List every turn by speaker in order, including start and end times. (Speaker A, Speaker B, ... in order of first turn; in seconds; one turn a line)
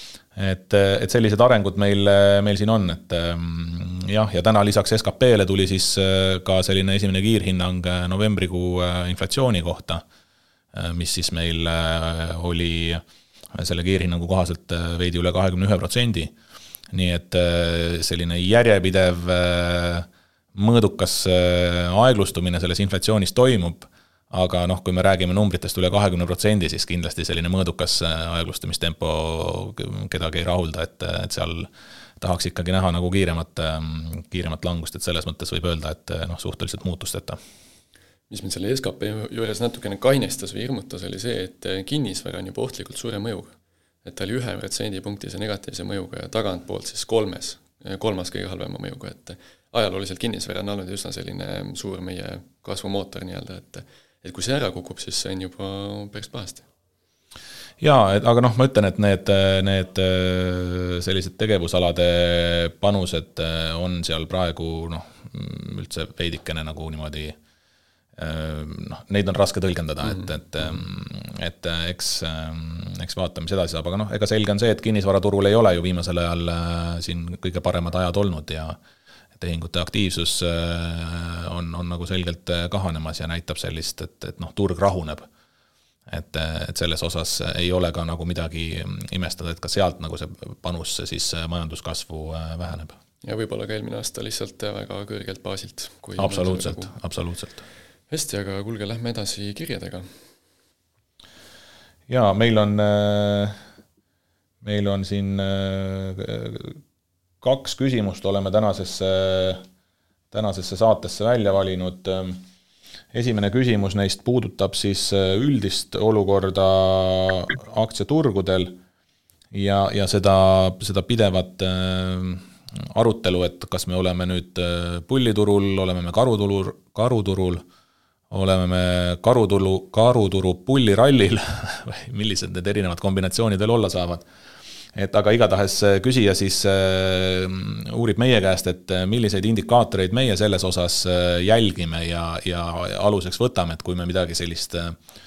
Speaker A: 0.4-10.0
Speaker A: 10.7-13.0
Speaker A: 13.6-16.3
Speaker A: 16.9-31.7
Speaker A: 32.2-37.4
Speaker B: 38.3-56.6
Speaker A: 57.8-67.4
Speaker A: 68.2-78.8
Speaker B: 70.1-70.8
Speaker A: 79.4-85.3
Speaker A: 86.1-93.0
Speaker B: 93.2-96.9
Speaker A: 96.2-97.6
Speaker B: 98.1-100.1
Speaker A: 102.1-103.6
Speaker A: 104.6-106.8
Speaker A: 107.4-109.6
Speaker A: 110.3-112.4
Speaker A: 113.1-118.8
Speaker A: 119.5-127.6
Speaker A: 128.3-134.3
Speaker A: 134.9-145.0